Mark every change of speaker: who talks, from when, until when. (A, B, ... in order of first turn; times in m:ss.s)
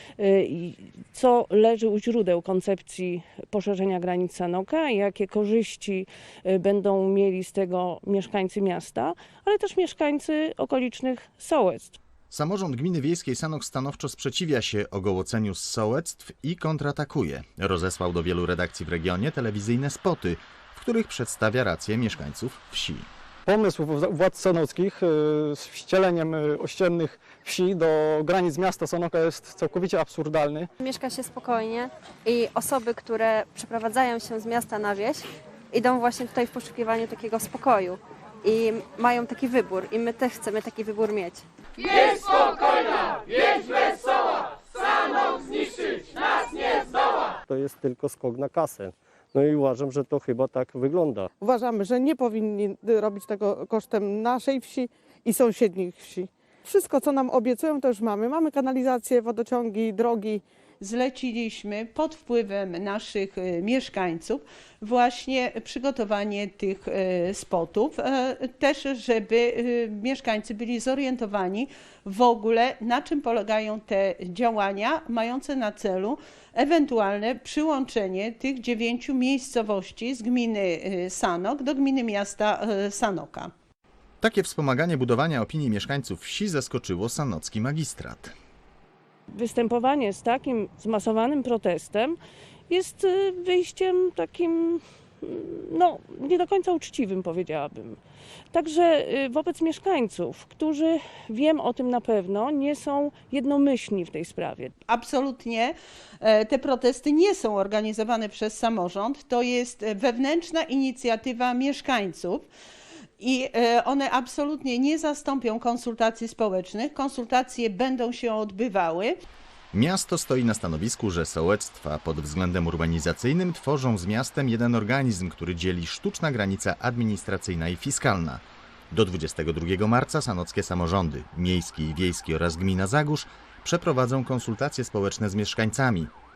0:00.2-0:12.0 A
0:12.3-0:23.1 B
0:23.4-0:30.7 C
0:30.8-0:41.4 D
0:47.5-0:51.3 E
0:51.4-1:00.4 F
1:00.8-1:23.5 G
1:24.2-1:28.3 B
1:29.3-1:32.2 A
1:32.7-1:38.0 A
1:38.5-1:44.7 A
1:44.9-1:52.4 G
1:53.2-1:59.2 G
1:59.7-2:16.1 B